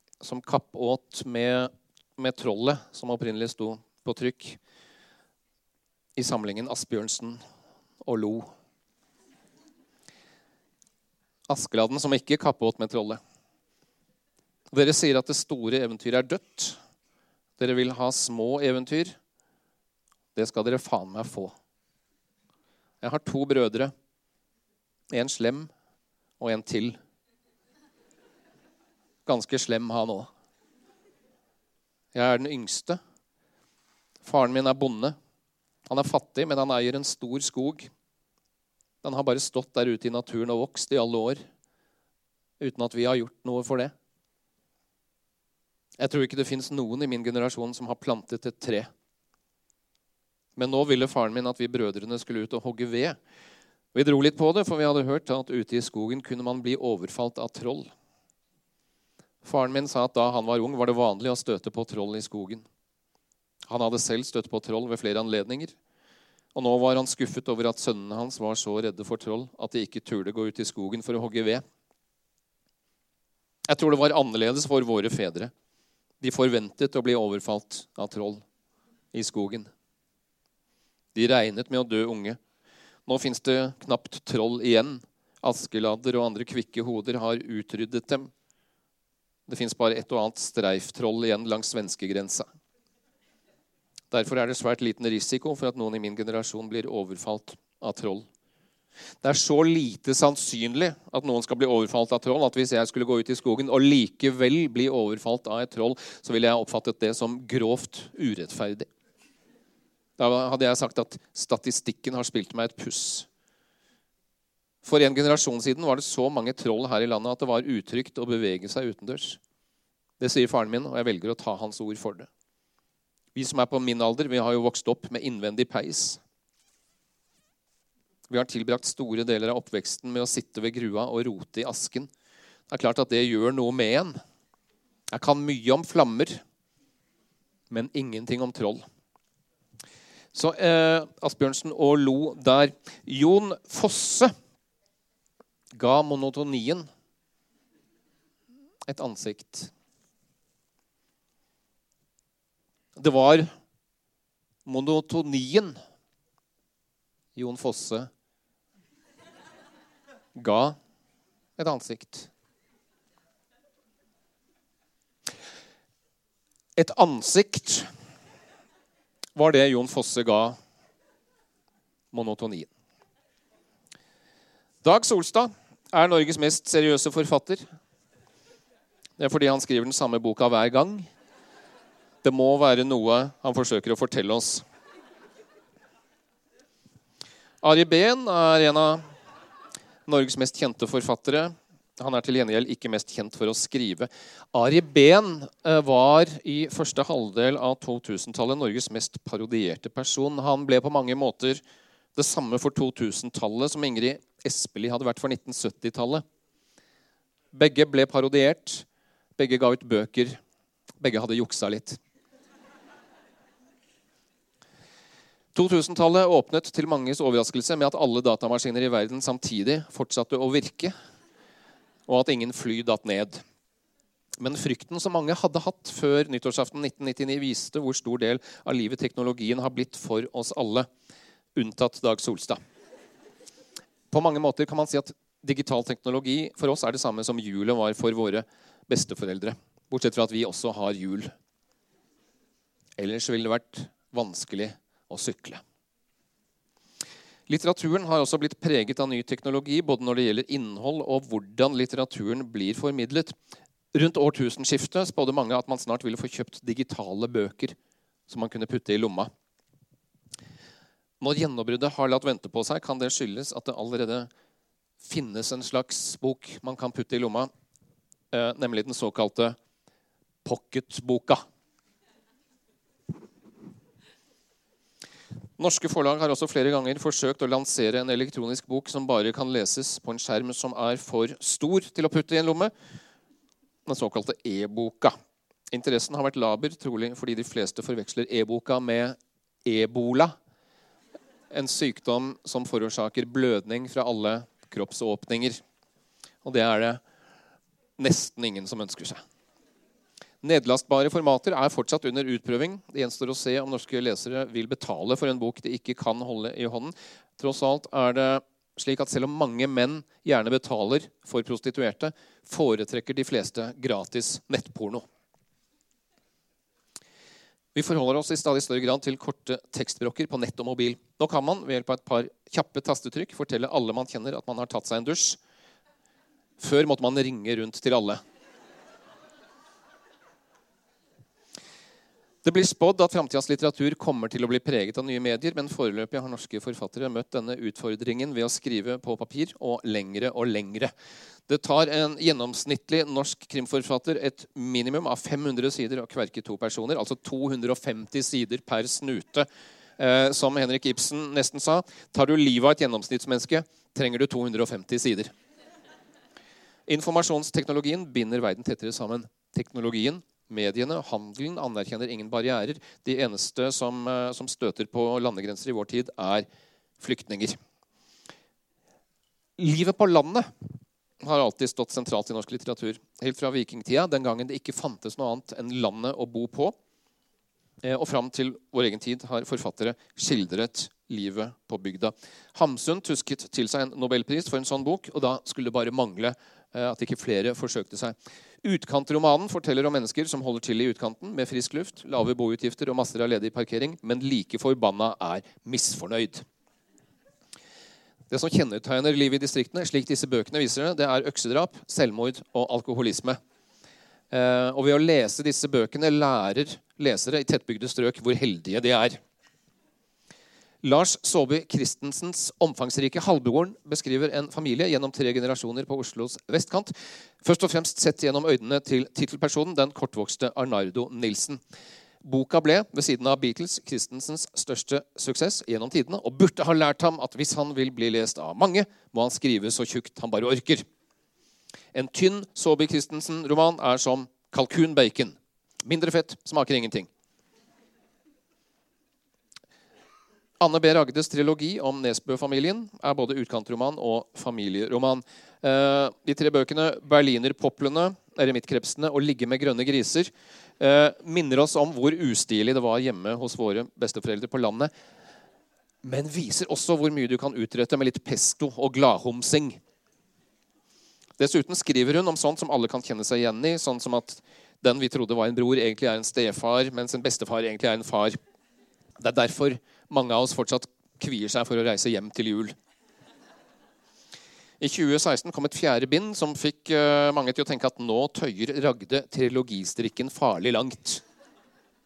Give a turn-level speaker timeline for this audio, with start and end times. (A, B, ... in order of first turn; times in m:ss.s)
0:00.2-0:04.6 A
0:06.2-0:07.4 A
0:08.0-0:08.5 A
0:11.5-0:13.2 A
0:14.7-0:16.8 A
0:17.6-0:19.2 A
0:20.4-0:21.5 A
0:23.0-0:23.9 A
0:25.1-0:25.7 A
0:26.4-0:27.0 A
0:29.3-0:30.3 A
0:32.1-0:33.0 A
0:34.2-0:35.2 A
0:35.9-0:37.9 A
0:39.0-0:41.4 A
0:42.6-0:43.9 A
0:46.0-0:48.9 A
0:50.6-0:53.2 A
0:53.9-0:57.9 A
0:59.4-1:02.6 A
1:03.7-1:05.8 A
1:06.6-1:11.6 A
1:13.7-1:15.5 A
1:16.2-1:18.4 A
1:19.1-1:19.7 A
1:21.2-1:22.4 A
1:23.1-1:28.3 A
1:29.5-1:32.5 A
1:34.1-1:38.3 A
1:39.2-1:48.9 A
1:50.2-1:53.3 A
1:54.8-1:59.4 A
2:00.2-2:02.3 A
2:03.4-2:06.2 A
2:08.3-2:12.1 A
2:12.7-2:14.2 A
2:15.1-2:16.4 A
2:17.7-2:18.8 A
2:20.3-2:24.3 A
2:25.8-2:26.9 A
2:28.9-2:29.7 A
2:33.0-2:33.5 A
2:34.7-2:35.8 A
2:37.4-2:38.1 A
2:40.4-2:40.8 A
2:41.6-2:42.3 A
2:46.8-2:47.9 A
2:49.4-2:50.6 A
2:52.1-2:52.7 A
2:54.8-2:57.6 A
2:59.2-3:01.1 A
3:02.2-3:04.6 A
3:07.6-3:09.1 A
3:10.1-3:21.6 A
3:22.2-3:26.2 A
3:27.5-3:28.8 A
3:29.4-3:30.4 A
3:31.0-3:32.0 A
3:35.6-3:40.9 A
3:42.1-3:43.4 A
3:44.4-3:50.9 A
3:51.6-3:52.6 A
3:54.1-4:01.3 A
4:03.0-4:05.6 A
4:07.5-4:13.4 A
4:13.9-4:17.8 A
4:18.3-4:19.3 A
4:21.2-4:24.3 A
4:25.0-4:27.5 A
4:28.3-4:29.6 A
4:30.4-4:31.4 A
4:35.6-4:42.7 A
4:43.9-4:45.2 A
4:45.7-4:50.4 A
4:51.5-4:55.6 A
4:56.4-4:57.0 A
4:58.0-4:59.2 A
5:00.4-5:15.0 A
5:17.8-5:25.4 A
5:26.6-5:28.2 A
5:32.4-5:40.9 A
5:41.5-5:49.5 A
5:50.0-5:55.3 A
5:56.9-6:06.5 A
6:07.0-6:07.6 A
6:09.6-6:10.5 A
6:11.2-6:16.8 A
6:17.8-6:36.4 A
6:38.3-6:43.4 A
6:44.3-6:49.2 A
6:50.8-7:01.6 A
7:02.2-7:10.8 A
7:11.9-7:17.1 A
7:20.6-7:34.9 A
7:36.0-7:39.8 A
7:41.4-7:48.4 A
7:49.2-7:52.7 A
7:54.8-8:01.2 A